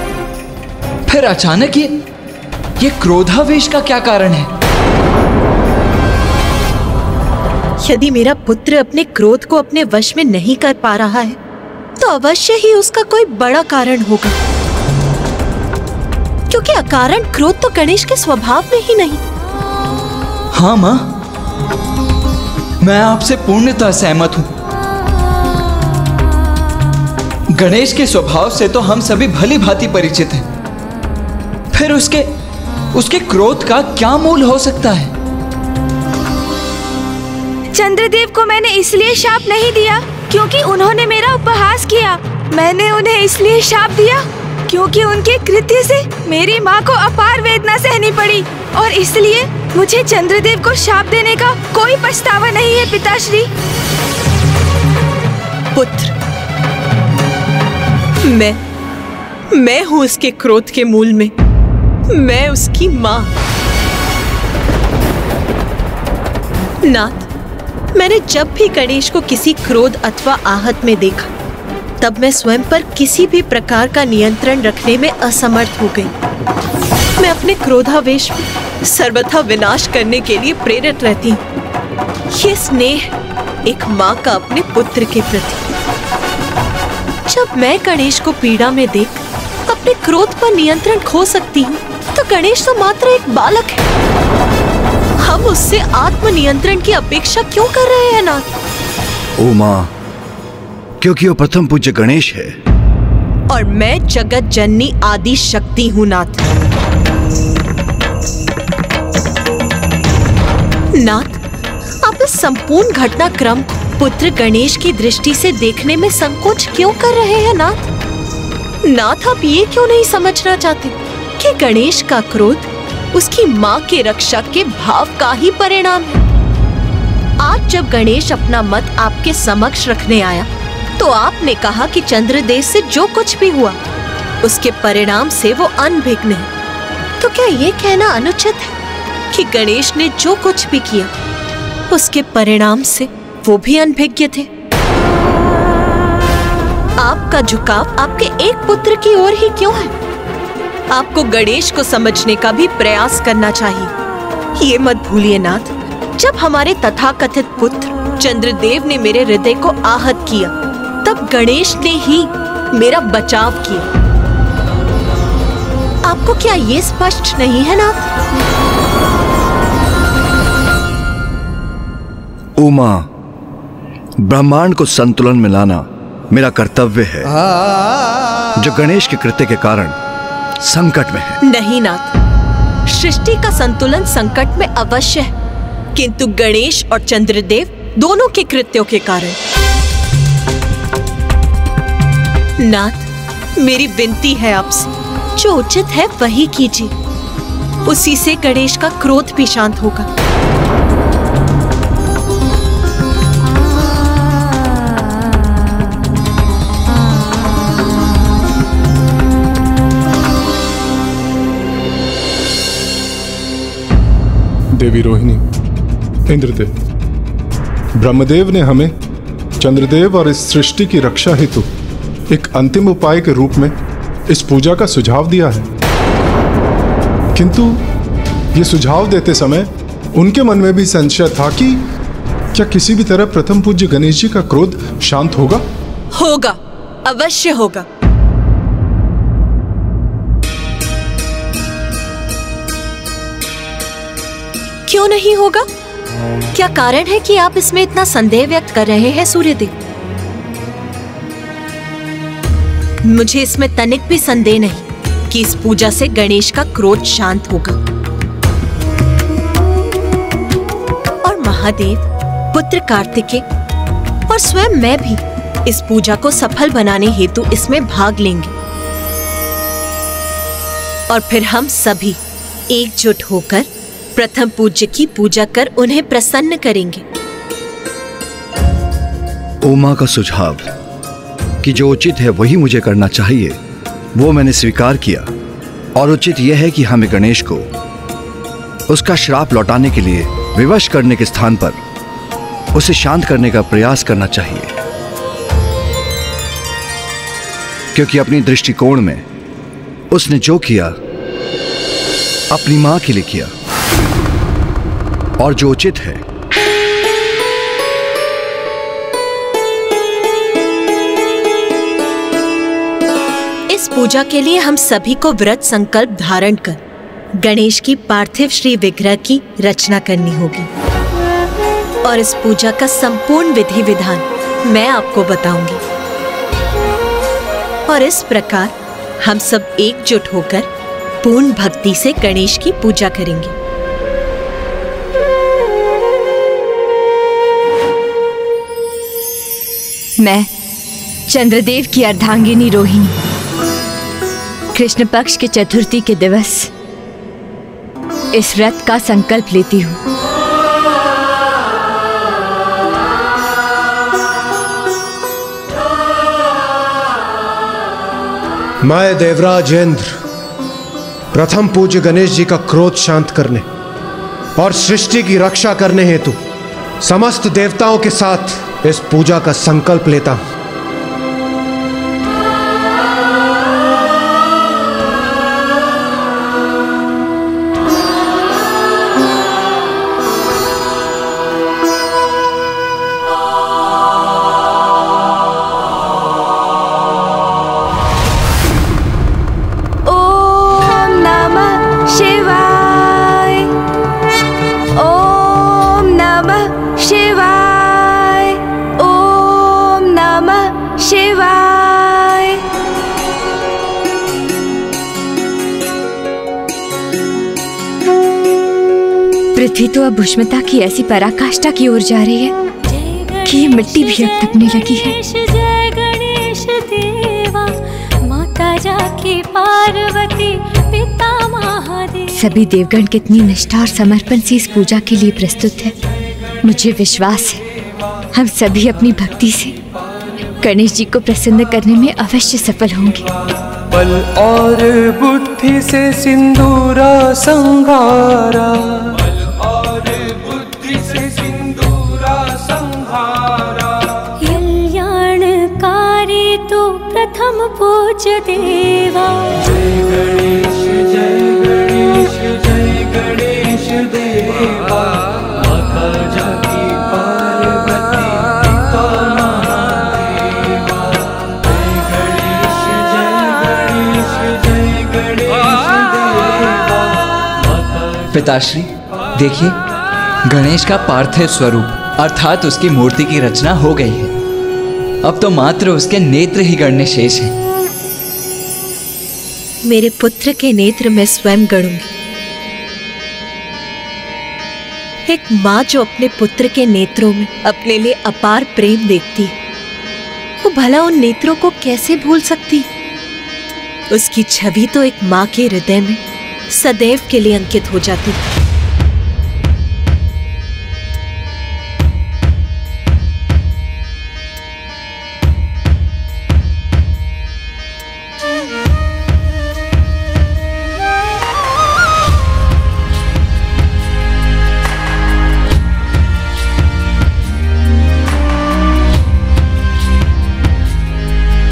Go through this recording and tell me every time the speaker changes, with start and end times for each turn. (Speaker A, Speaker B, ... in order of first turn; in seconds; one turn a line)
Speaker A: 1.1-2.0
Speaker A: 2.8-4.5
Speaker B: 7.8-11.4
Speaker B: 12.0-14.4
Speaker B: 16.5-19.2
Speaker A: 20.5-21.1
Speaker A: 22.8-24.5
Speaker A: 27.5-30.4
Speaker A: 31.7-32.3
Speaker A: 32.9-35.1
Speaker C: 37.7-53.5
Speaker B: 55.7-56.1
Speaker B: 58.2-58.6
Speaker B: 59.5-61.3
Speaker B: 62.1-63.3
Speaker B: 66.8-67.3
Speaker B: 68.0-71.3
Speaker B: 72.0-76.1
Speaker B: 77.2-81.4
Speaker B: 82.3-83.1
Speaker B: 83.7-85.6
Speaker B: 87.3-93.8
Speaker B: 95.2-98.5
Speaker D: 99.4-99.9
Speaker D: 101.0-102.5
Speaker B: 103.5-106.4
Speaker B: 111.0-111.4
Speaker B: 112.0-117.9
Speaker B: 118.9-126.2
Speaker B: 127.4-133.8
Speaker B: 134.4-136.5
Speaker B: 137.2-138.7
Speaker B: 139.3-141.1
Speaker B: 141.9-144.5
Speaker B: 147.0-149.9
Speaker B: 150.9-153.9
Speaker B: 154.6-160.5
Speaker B: 161.0-163.9
Speaker B: 166.1-168.1
Speaker D: 172.6-173.1
Speaker D: 174.2-177.3
Speaker D: 178.6-180.0
Speaker D: 180.6-181.4
Speaker B: 181.4-182.1
Speaker B: 182.9-185.3
Speaker B: 185.9-189.4
Speaker B: 192.6-196.9
Speaker B: 197.9-200.1
Speaker E: 214.8-215.4
Speaker E: 216.3-216.7
Speaker E: 218.0-218.9
Speaker E: 219.6-221.7
Speaker E: 222.3-223.7
Speaker E: 224.3-225.7
Speaker E: 227.4-227.8
Speaker E: 228.5-231.8
Speaker E: 232.5-235.6
Speaker B: 236.1-237.9
Speaker B: 244.9-245.7
Speaker B: 246.5-249.8
Speaker B: 253.0-257.8
Speaker B: 261.2-263.4
Speaker B: 264.3-268.5
Speaker B: 271.1-272.2
Speaker B: 272.7-277.0
Speaker D: 279.6-280.7
Speaker D: 281.6-283.6
Speaker D: 284.2-285.3
Speaker D: 286.0-287.7
Speaker D: 288.9-291.8
Speaker D: 292.7-294.7
Speaker D: 297.9-299.2
Speaker D: 300.1-301.0
Speaker D: 302.5-303.5
Speaker D: 305.4-306.2
Speaker B: 313.7-316.8
Speaker B: 317.4-320.7
Speaker B: 322.1-325.8
Speaker B: 327.9-330.7
Speaker B: 331.2-333.5
Speaker F: 340.2-340.5
Speaker F: 341.3-343.1
Speaker F: 344.7-346.7
Speaker F: 348.3-350.0
Speaker G: 358.9-360.1
Speaker G: 361.3-363.6
Speaker G: 364.6-366.4
Speaker G: 367.1-370.4
Speaker C: 390.1-393.7
Speaker C: 394.9-402.6
Speaker F: 409.6-412.5
Speaker H: 412.9-422.3
Speaker F: 413.5-415.1
Speaker F: 422.4-425.9
Speaker F: 426.6-427.6
Speaker F: 428.3-429.8
Speaker F: 430.6-433.2
Speaker I: 433.9-439.2
Speaker I: 440.9-442.7
Speaker H: 444.4-449.5
Speaker I: 454.2-454.8
Speaker I: 457.7-458.0
Speaker I: 463.6-463.9
Speaker A: 468.3-469.8
Speaker A: 470.5-474.3
Speaker A: 475.2-477.5
Speaker B: 479.9-482.1
Speaker B: 485.3-489.5
Speaker B: 490.6-492.9
Speaker B: 494.1-496.2
Speaker B: 496.7-498.4